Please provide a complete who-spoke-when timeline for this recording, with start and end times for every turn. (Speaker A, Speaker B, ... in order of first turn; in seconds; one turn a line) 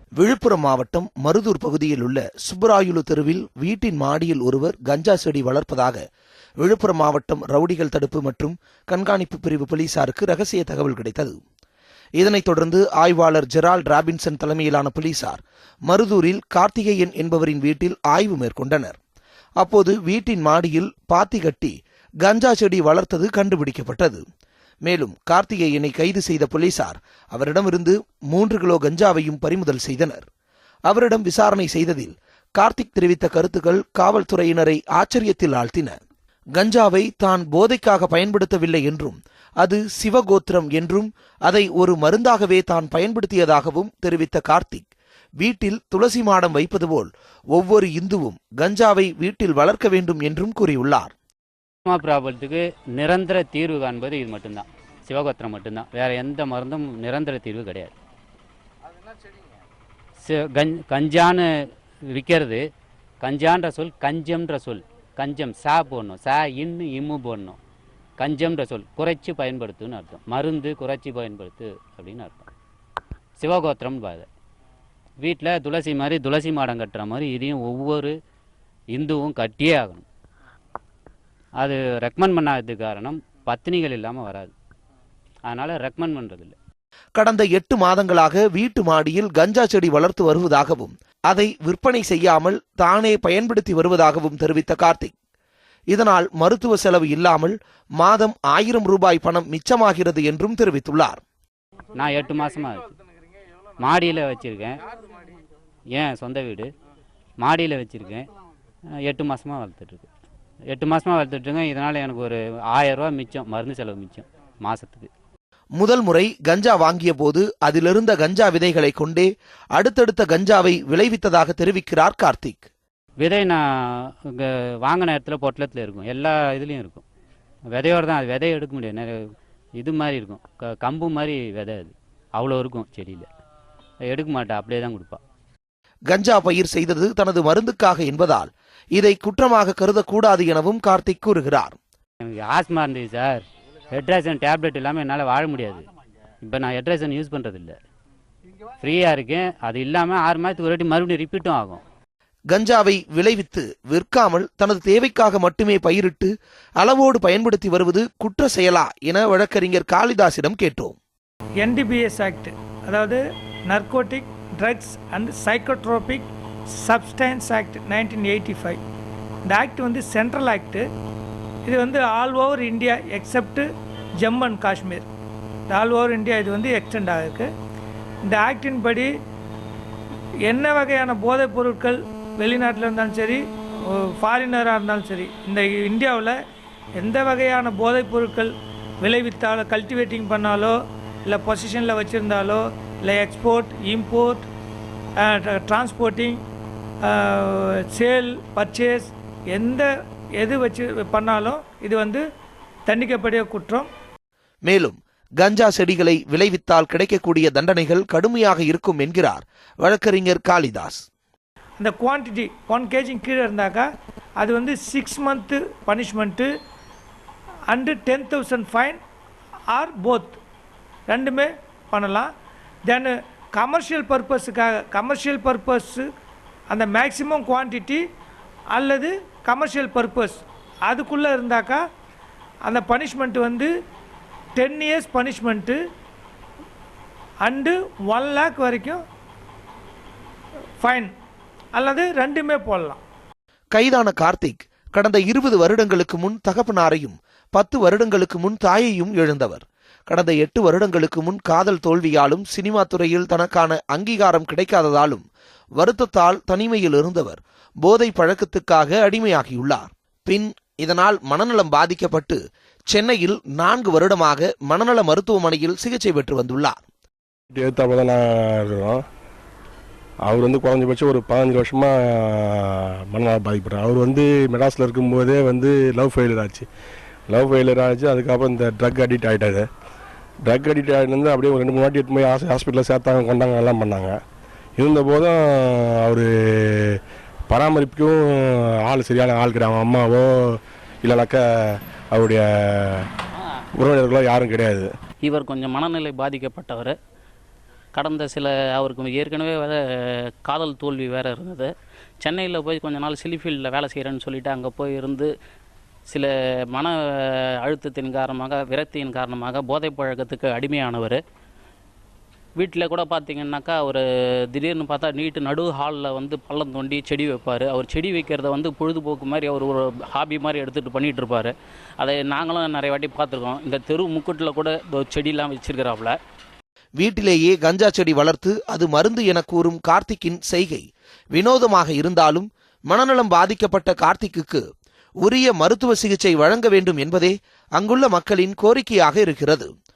Speaker A: 0.2-6.0
Speaker A: 6.6-11.4
Speaker A: 12.2-19.0
Speaker A: 19.6-24.2
Speaker A: 24.9-30.2
Speaker A: 30.9-36.0
Speaker A: 36.5-44.9
Speaker A: 45.4-51.1
Speaker B: 51.9-57.9
Speaker B: 60.2-61.5
Speaker B: 62.0-62.7
Speaker B: 63.2-67.6
Speaker B: 68.2-72.5
Speaker B: 73.4-74.3
Speaker B: 75.2-78.1
Speaker B: 78.9-80.0
Speaker B: 81.6-84.5
Speaker B: 85.5-86.5
Speaker A: 87.2-95.1
Speaker A: 95.9-101.2
Speaker B: 101.9-103.0
Speaker B: 103.8-104.8
Speaker B: 105.9-106.7
Speaker B: 107.4-108.3
Speaker B: 109.0-110.1
Speaker B: 110.7-115.1
Speaker A: 115.8-122.7
Speaker B: 123.2-127.0
Speaker B: 127.7-129.2
Speaker B: 129.8-133.3
Speaker B: 134.1-135.2
Speaker A: 136.1-141.8
Speaker B: 142.2-145.9
Speaker B: 146.4-147.8
Speaker B: 148.8-151.8
Speaker A: 152.5-161.0
Speaker C: 161.6-168.8
Speaker C: 169.5-170.9
Speaker C: 171.7-175.1
Speaker C: 175.7-177.5
Speaker C: 178.2-179.2
Speaker C: 180.4-186.4
Speaker C: 187.0-194.5
Speaker C: 195.2-196.4
Speaker C: 197.0-202.2
Speaker C: 202.9-203.9
Speaker A: 204.7-211.0
Speaker C: 211.8-216.5
Speaker C: 217.7-219.0
Speaker C: 219.7-220.4
Speaker C: 221.1-222.3
Speaker C: 222.8-226.1
Speaker C: 226.7-228.1
Speaker C: 228.7-231.8
Speaker C: 232.6-233.7
Speaker C: 234.6-235.8
Speaker C: 237.4-239.0
Speaker C: 240.8-241.1
Speaker C: 241.7-243.0
Speaker A: 243.7-255.2
Speaker A: 255.8-262.4
Speaker A: 262.9-266.8
Speaker D: 267.5-269.0
Speaker D: 270.3-271.9
Speaker D: 273.1-276.7
Speaker D: 277.3-279.6
Speaker D: 280.5-284.2
Speaker D: 284.8-286.2
Speaker D: 287.5-288.2
Speaker D: 288.9-290.3
Speaker D: 291.0-291.4
Speaker D: 292.1-293.1
Speaker D: 293.8-294.9
Speaker E: 295.2-296.9
Speaker E: 297.9-301.7
Speaker E: 302.2-305.3
Speaker E: 306.1-311.2
Speaker E: 312.6-326.2
Speaker A: 327.0-334.6
Speaker A: 335.2-339.7